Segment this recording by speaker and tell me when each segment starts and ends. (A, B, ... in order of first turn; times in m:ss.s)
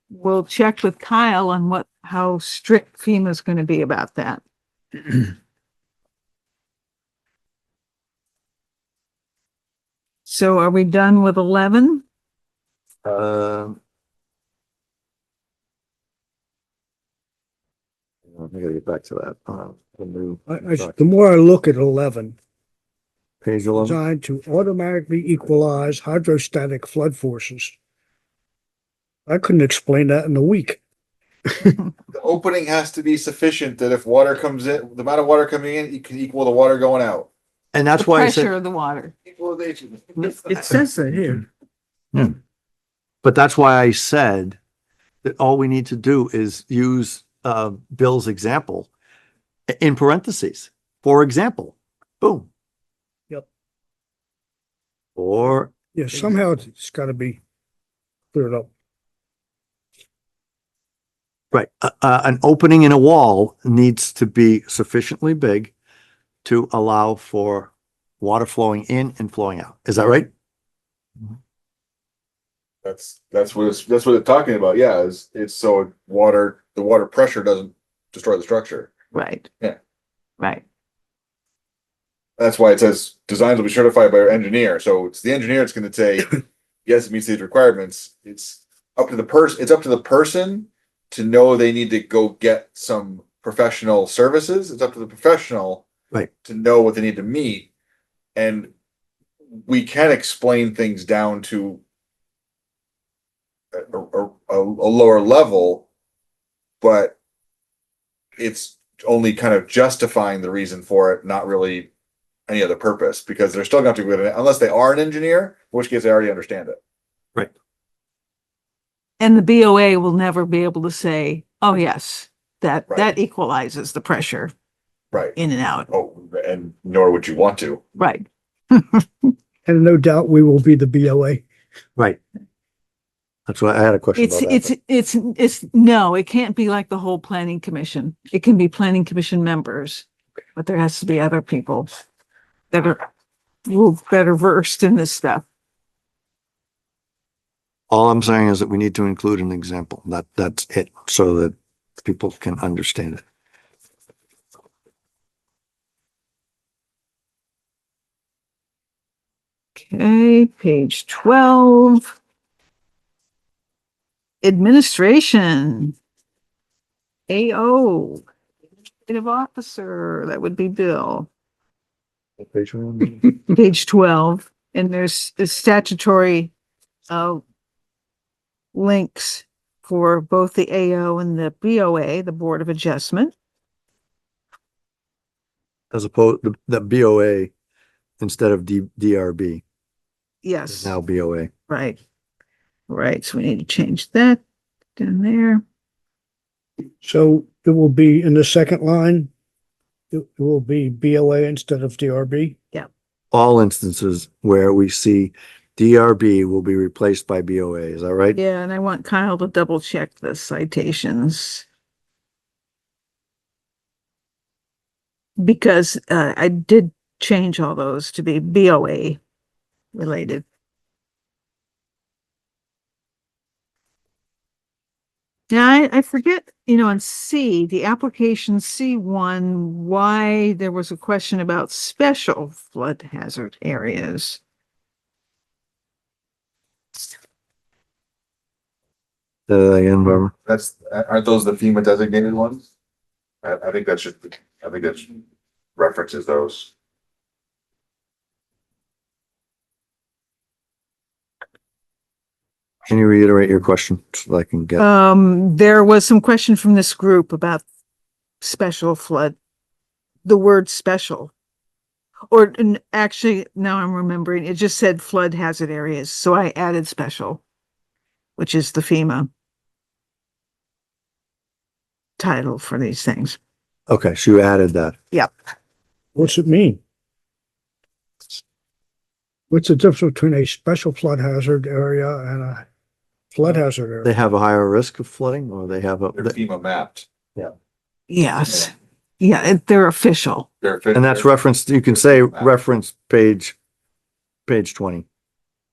0:00.1-0:04.4 A
0:10.2-0:12.0 A
0:13.0-0:13.8 B
0:18.3-0:20.9 B
0:20.5-0:22.4 C
0:23.4-0:24.0 B
0:23.8-0:27.8 C
0:29.3-0:30.8 C
0:31.5-0:31.8 C
0:32.1-0:37.3 D
0:37.7-0:38.5 B
0:38.0-0:39.1 A
0:39.3-0:40.7 D
0:40.5-0:41.4 A
0:43.2-0:44.6 B
0:45.2-0:48.9 B
0:49.7-0:52.5 B
0:55.2-0:56.4 B
0:55.9-0:57.4 C
0:58.3-0:58.7 C
1:01.5-1:05.7 B
1:06.4-1:10.3 B
1:12.8-1:18.9 D
1:19.1-1:19.5 A
1:20.4-1:20.6 A
1:22.4-1:35.8 D
1:36.4-1:37.7 D
1:38.3-1:38.7 D
1:39.6-1:41.8 D
1:43.7-1:45.8 D
1:46.8-1:47.2 D
1:48.4-1:51.9 D
1:52.5-1:56.8 D
1:59.2-2:04.5 A
2:05.4-2:05.9 A
2:05.9-2:07.8 D
2:08.0-2:09.3 A
2:09.6-2:11.4 C
2:13.5-2:14.7 B
2:14.2-2:21.9 A
2:22.7-2:23.0 A
2:23.6-2:25.4 A
2:27.9-2:33.2 B
2:39.8-2:42.0 A
2:44.4-2:45.9 A
2:47.3-2:48.2 A
2:49.1-2:51.3 A
2:52.4-2:53.3 B
2:53.5-2:56.5 A
2:57.1-2:57.4 A
2:58.7-3:03.3 A
3:05.9-3:07.5 B
3:08.2-3:09.6 B
3:10.4-3:11.0 A
3:10.7-3:11.5 B
3:11.7-3:12.0 A
3:12.9-3:14.4 A
3:15.0-3:15.6 A
3:17.0-3:19.3 C
3:20.1-3:22.6 C
3:23.3-3:28.4 B
3:28.3-3:31.6 A
3:35.4-3:39.2 A
3:39.9-3:40.4 A
3:45.5-3:54.4 A
3:59.5-4:00.3 B
4:00.4-4:02.7 D
4:03.4-4:05.2 D
4:05.8-4:06.7 D
4:12.9-4:14.8 B
4:14.8-4:17.6 A
4:18.4-4:19.4 A
4:20.2-4:21.3 A
4:22.3-4:27.4 A
4:28.4-4:29.3 A
4:32.2-4:33.4 A
4:33.9-4:35.0 B
4:36.1-4:36.8 C
4:39.5-4:42.6 C
4:43.3-4:44.1 C
4:44.0-4:46.3 B
4:46.1-4:47.1 D
4:48.1-4:50.5 A
4:50.6-4:52.5 D
4:50.9-4:53.6 B
4:54.5-4:55.0 B